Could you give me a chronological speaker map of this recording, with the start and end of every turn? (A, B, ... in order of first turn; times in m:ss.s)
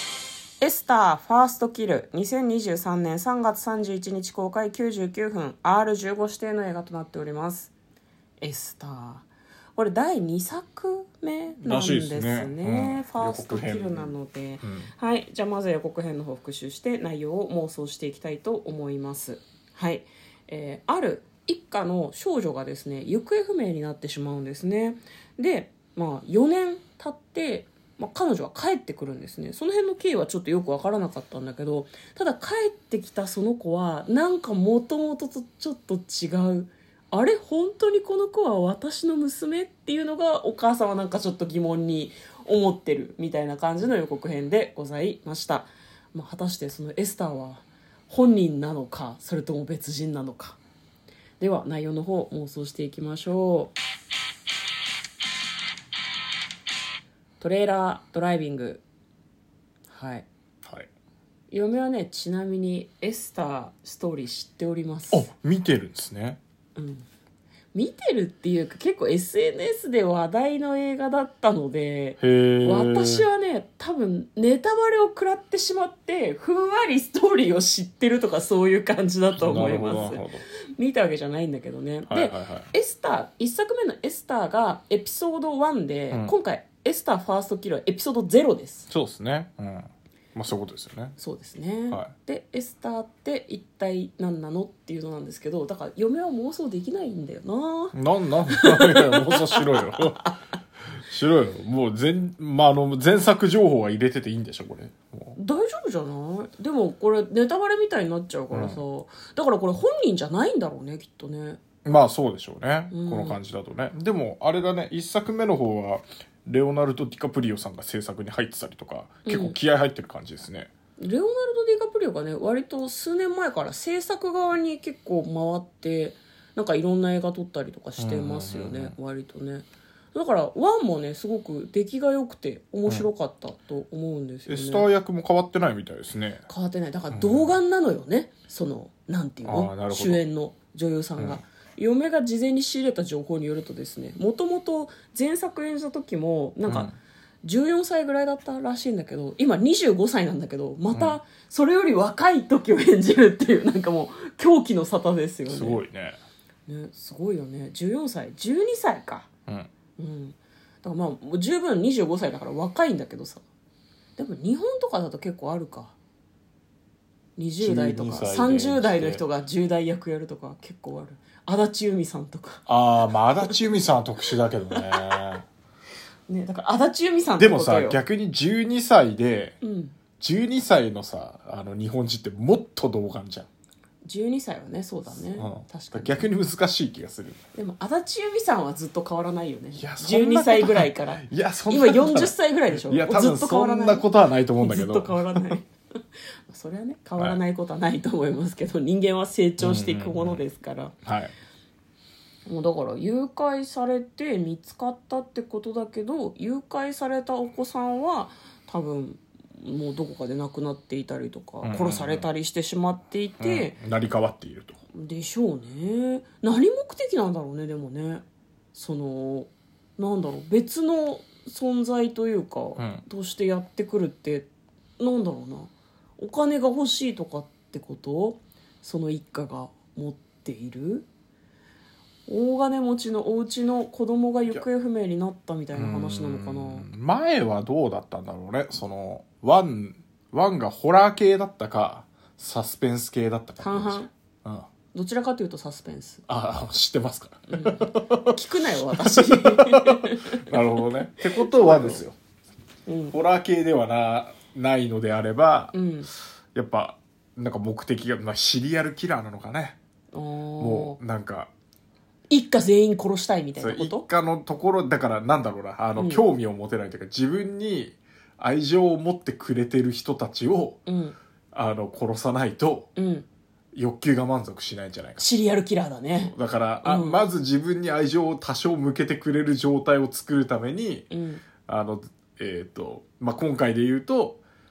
0:00.6-0:07.7 A
0:08.4-0:50.6 A
0:11.6-0:14.9 B
0:51.4-0:53.7 A
0:57.4-0:58.8 A
0:59.9-1:00.3 A
1:00.6-1:00.9 B
1:01.5-1:05.3 A
1:05.1-1:06.4 B
1:06.8-1:07.0 A
1:07.7-1:20.2 A
1:12.2-1:13.3 B
1:19.4-1:20.4 B
1:20.8-1:28.9 A
1:22.1-1:22.7 B
1:28.9-1:31.2 B
1:31.2-1:38.0 A
1:37.9-1:40.2 B
1:38.5-1:40.3 A
1:40.9-1:45.4 B
1:45.4-1:51.6 A
1:48.5-1:48.8 B
1:51.8-2:00.7 B
1:52.9-1:53.4 A
1:59.3-1:59.6 A
2:01.0-2:14.9 A
2:08.0-2:09.0 B
2:14.5-2:16.4 B
2:16.5-2:26.9 A
2:17.1-2:17.5 B
2:19.4-2:20.2 B
2:26.7-2:27.0 B
2:27.4-2:35.8 A
2:30.9-2:31.2 B
2:35.5-2:36.2 B
2:36.7-2:39.3 A
2:40.0-2:43.4 A
2:44.2-2:46.0 A
2:47.4-2:52.6 A
2:47.6-2:49.2 B
2:52.7-2:55.4 B
2:54.7-2:55.2 A
2:56.3-2:58.0 A
2:57.4-2:59.6 B
2:59.6-3:00.0 A
3:00.2-3:03.5 B
3:04.0-3:06.3 A
3:05.3-3:07.4 B
3:07.5-3:14.1 A
3:09.8-3:15.6 B
3:14.6-3:15.7 A
3:16.5-3:21.0 A
3:19.6-3:20.4 B
3:21.0-3:21.3 B
3:22.5-3:33.8 A
3:31.6-3:32.3 B
3:33.4-3:34.8 B
3:34.9-3:44.5 A
3:42.8-3:43.0 B
3:45.0-3:51.1 A
3:52.3-3:56.9 A
3:55.7-4:04.7 B
4:03.6-4:04.1 A
4:04.9-4:06.2 A
4:06.3-4:12.2 B
4:07.5-4:10.5 A
4:11.4-4:12.0 A
4:12.9-4:13.2 A
4:13.1-4:15.8 B
4:15.7-4:16.1 A
4:16.5-4:19.8 B
4:20.1-4:21.0 A
4:20.6-4:21.5 B
4:22.3-4:24.0 A
4:23.6-4:30.8 B
4:26.0-4:26.2 A
4:30.9-4:31.2 A
4:31.5-4:32.9 B
4:33.0-4:33.3 A
4:33.7-4:35.3 B
4:35.2-4:37.2 A
4:36.2-4:41.1 B
4:41.1-4:41.4 A
4:41.7-4:44.4 B